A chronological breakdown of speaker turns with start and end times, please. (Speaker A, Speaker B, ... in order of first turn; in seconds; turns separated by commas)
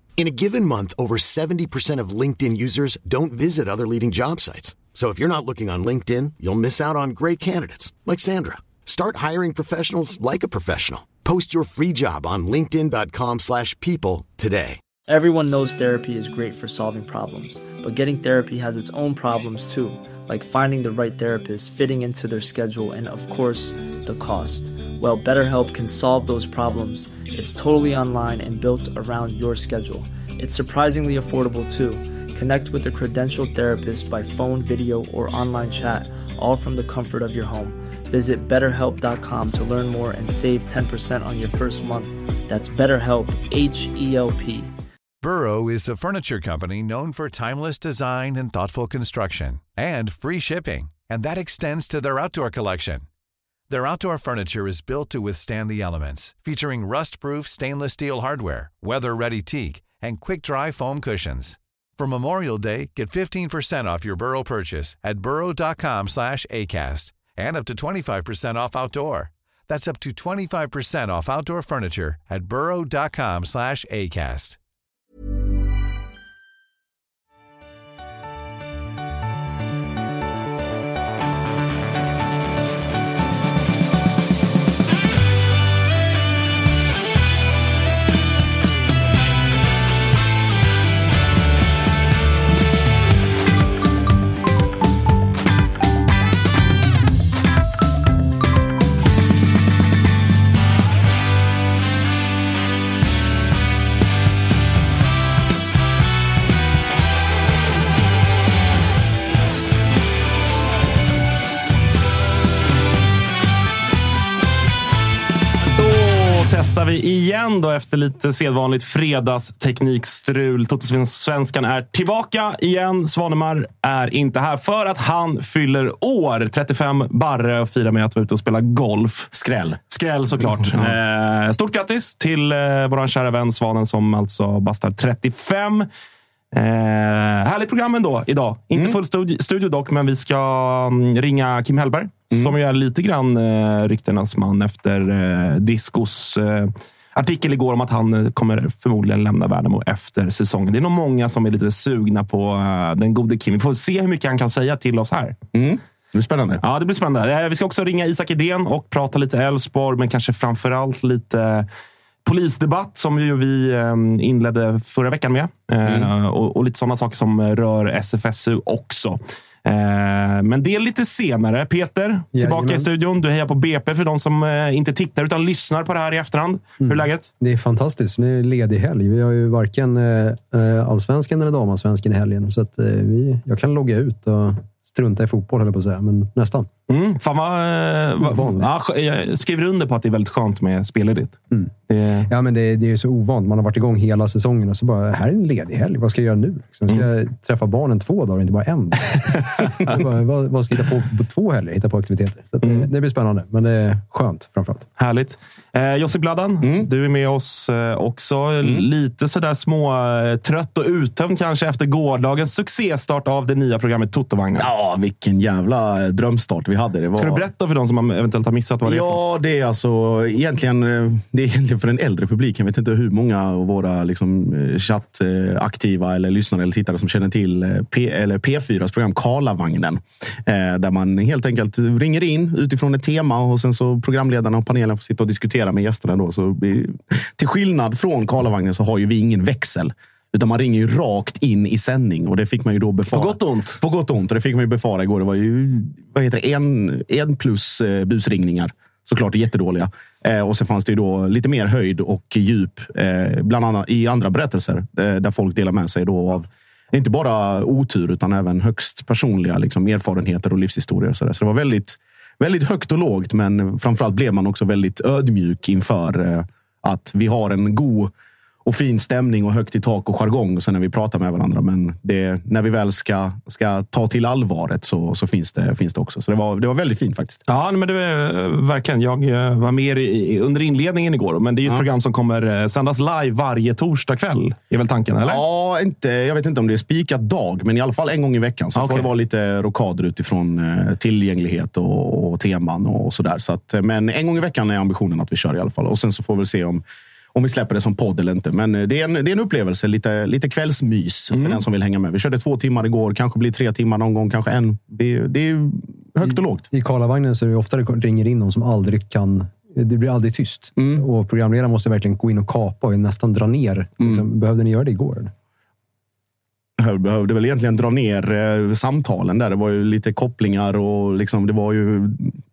Speaker A: 0.2-14.8, Speaker B: 15.1-44.7, Speaker C: 45.2-53.1, Speaker C: 53.7-74.6, Speaker D: 115.7-129.3, Speaker E: 129.3-129.8, Speaker D: 129.9-135.9, Speaker E: 130.4-130.9, Speaker D: 136.5-155.3, Speaker E: 155.5-156.6, Speaker D: 156.6-161.7, Speaker D: 162.2-177.3, Speaker F: 172.3-172.9, Speaker F: 176.8-186.7, Speaker D: 186.9-192.3, Speaker F: 188.2-188.7, Speaker F: 192.3-204.9, Speaker D: 205.0-214.7, Speaker E: 206.6-206.9, Speaker E: 214.6-217.4, Speaker D: 217.2-219.2, Speaker E: 218.8-268.1, Speaker D: 243.1-243.8, Speaker E: 268.6-277.4, Speaker D: 277.5-285.4, Speaker E: 285.2-296.8, Speaker D: 288.8-289.1, Speaker E: 297.3-306.7, Speaker D: 301.3-301.6, Speaker F: 306.7-315.3, Speaker E: 310.8-311.0, Speaker E: 316.8-322.4